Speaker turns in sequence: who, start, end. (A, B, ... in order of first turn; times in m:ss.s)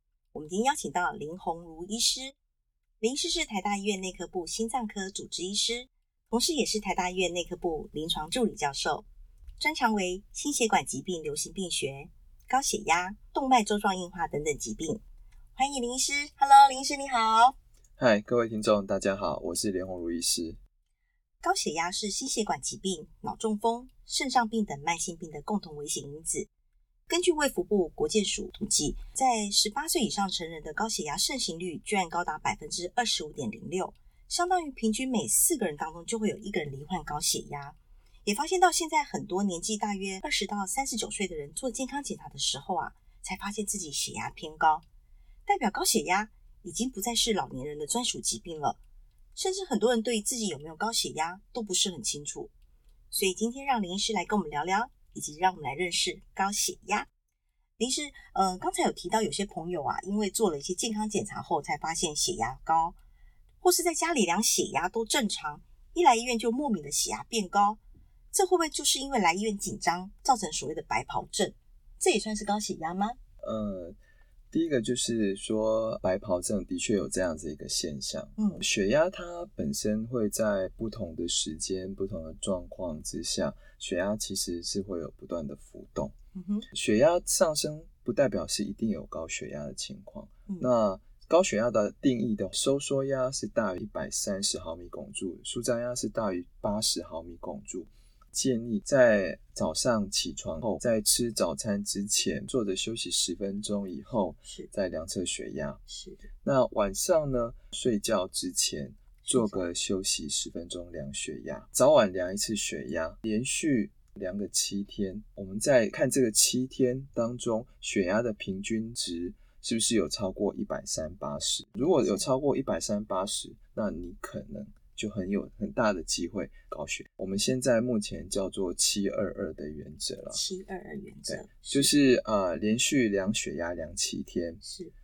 0:00.3-0:02.3 A
0:03.0-0:09.1 A
0:09.6-0:15.0 A
0:15.5-0:17.6 A
0:18.0-0:20.6 B
0:21.4-0:26.5 A
0:27.1-0:44.8 A
0:45.4-0:48.8 A
0:49.3-0:52.5 A
0:53.1-0:57.1 A
0:57.8-1:03.0 A
1:03.6-1:07.8 A
1:08.3-1:13.2 A
1:13.4-1:14.0 B
1:14.5-1:26.1 B
1:18.4-1:18.6 A
1:26.3-1:26.7 A
1:26.7-1:45.8 B
1:44.4-1:44.7 A
1:45.9-1:46.3 A
1:46.4-2:10.4 B
1:49.2-1:49.6 A
2:02.0-2:02.3 A
2:10.3-2:11.9 A
2:11.3-2:14.6 B
2:14.6-2:14.9 A